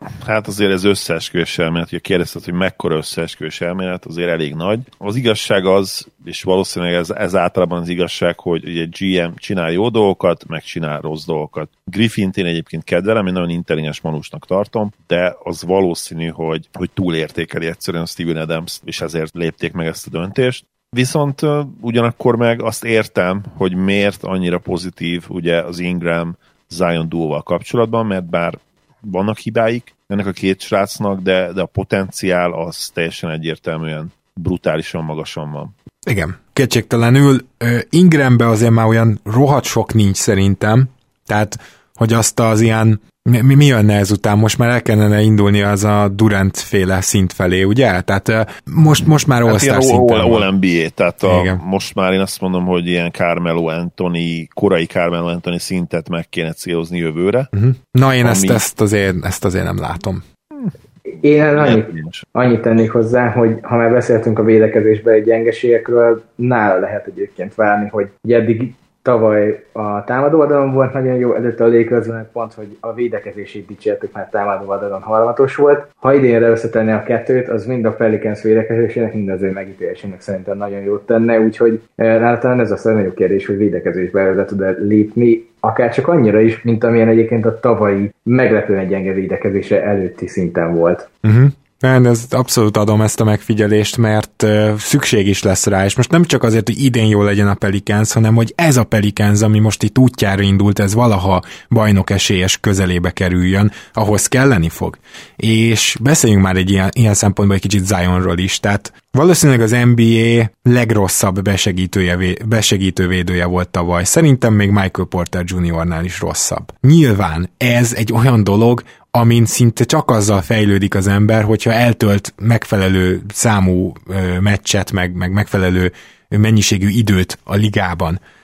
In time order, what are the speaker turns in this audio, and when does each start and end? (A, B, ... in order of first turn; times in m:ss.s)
0:00.2-0:35.7 A
0:36.0-0:50.5 B
0:49.4-0:57.5 A
0:51.2-0:51.6 B
0:57.5-1:00.2 B
0:58.2-0:58.6 A
1:01.1-1:31.1 C
1:01.5-1:02.2 A
1:31.2-2:08.2 B